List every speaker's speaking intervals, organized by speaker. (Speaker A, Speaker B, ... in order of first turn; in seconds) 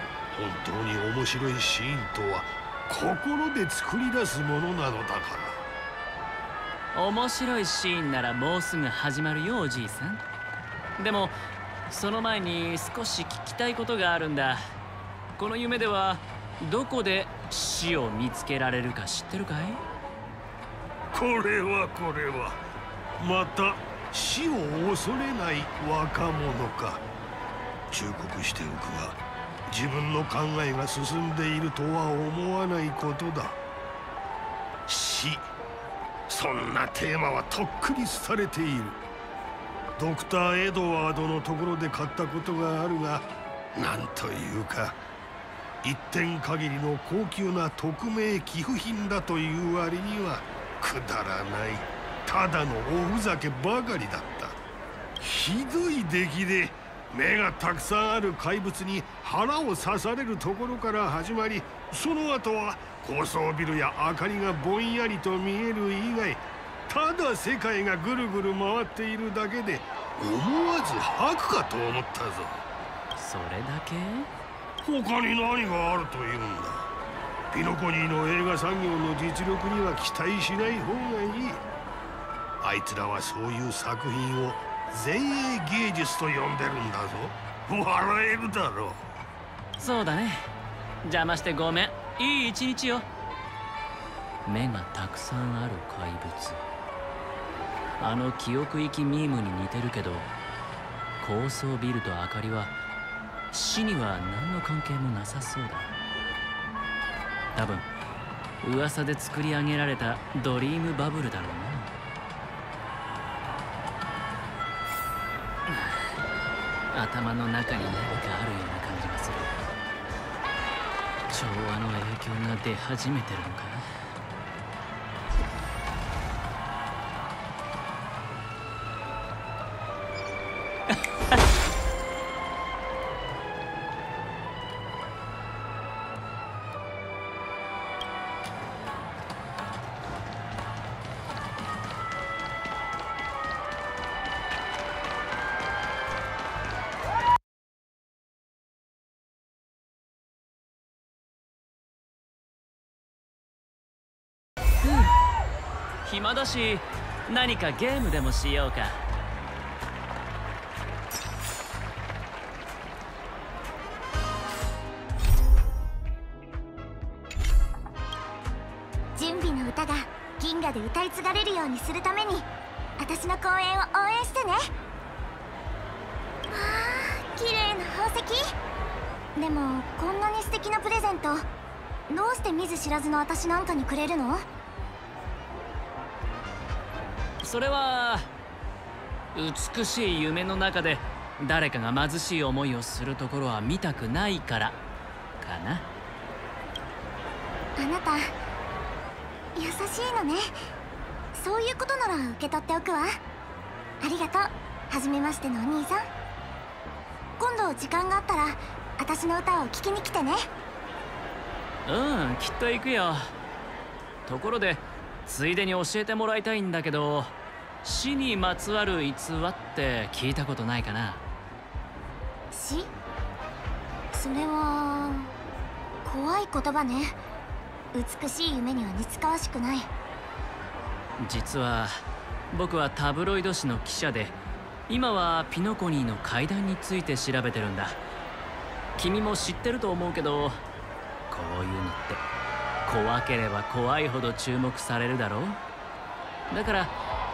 Speaker A: 0.3-5.6, 21.1-22.6, 23.2-27.0, 27.9-33.6, 34.9-35.5, 36.3-39.0, 40.0-45.0, 45.8-54.6, 55.2-72.6, 74.8-76.9, 77.5-81.6, 82.6-89.0
Speaker B: 6.9-10.2, 11.0-14.6, 15.4-19.8, 73.2-74.3, 89.8-90.5, 91.0-93.0, 94.5-96.6, 98.0-100.3, 101.2-102.7, 103.5-105.9, 107.5-107.9, 108.6-111.9, 115.7-116.1, 116.9-119.5, 121.3-123.9, 154.8-155.1, 156.0-159.0, 187.4-188.3, 189.3-194.8, 195.4-195.9, 211.8-213.3, 214.3-221.2, 231.2-231.9, 232.5-234.4, 234.9-238.0, 239.0-240.6, 241.3-242.3, 242.9-245.6, 246.5-247.0
Speaker C: 169.2-172.5, 173.0-174.7, 176.5-178.5, 179.4-181.5, 182.1-184.4, 197.8-198.2, 199.6-200.5, 201.3-203.2, 204.0-206.1, 207.4-210.5, 222.5-222.9, 224.1-225.3, 226.0-227.2, 227.9-229.9